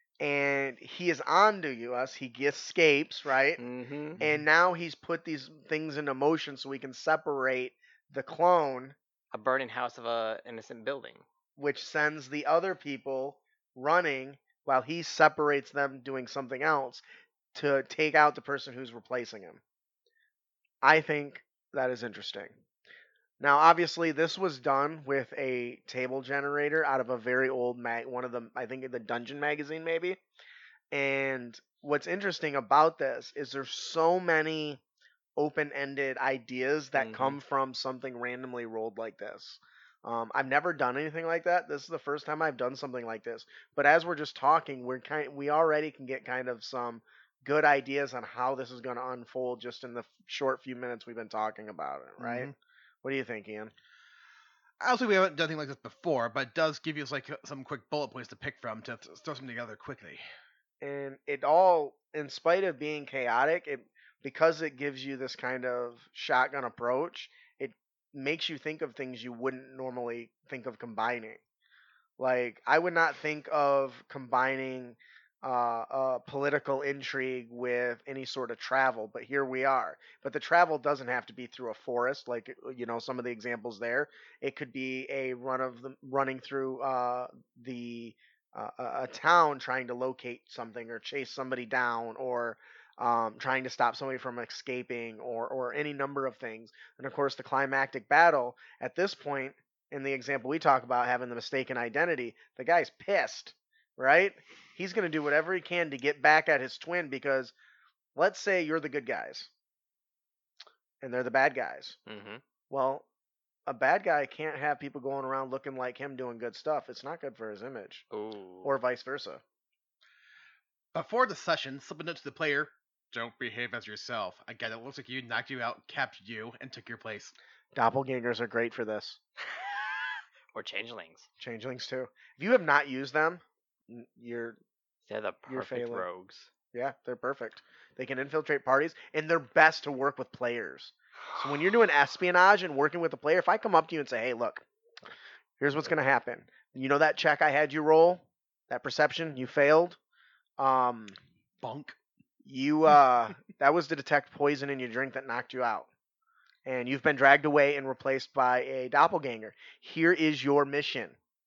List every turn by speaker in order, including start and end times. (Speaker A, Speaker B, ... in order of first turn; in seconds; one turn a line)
Speaker A: 0.2-3.6
Speaker B: 3.6-4.2
Speaker C: 4.2-4.5
Speaker A: 4.2-8.9
Speaker B: 9.3-11.3
Speaker A: 11.6-17.0
Speaker A: 17.5-19.6
Speaker A: 20.8-22.6
Speaker A: 23.4-30.2
Speaker A: 30.9-34.8
Speaker A: 35.4-52.5
Speaker B: 36.9-37.4
Speaker C: 52.2-52.5
Speaker A: 53.0-53.7
Speaker C: 54.8-60.2
Speaker A: 60.8-71.4
Speaker A: 72.2-107.5
Speaker A: 108.2-109.5
Speaker A: 111.0-112.0
Speaker B: 112.1-112.4
Speaker A: 112.7-113.1
Speaker A: 113.7-118.0
Speaker B: 118.1-118.7
Speaker A: 118.6-119.4
Speaker C: 120.9-127.3
Speaker A: 127.7-129.2
Speaker B: 130.5-131.3
Speaker A: 131.4-134.6
Speaker B: 135.1-136.5
Speaker A: 135.5-136.1
Speaker A: 136.7-144.7
Speaker A: 145.6-150.0
Speaker A: 150.6-151.2
Speaker C: 151.6-152.0
Speaker A: 152.4-155.9
Speaker A: 156.7-161.2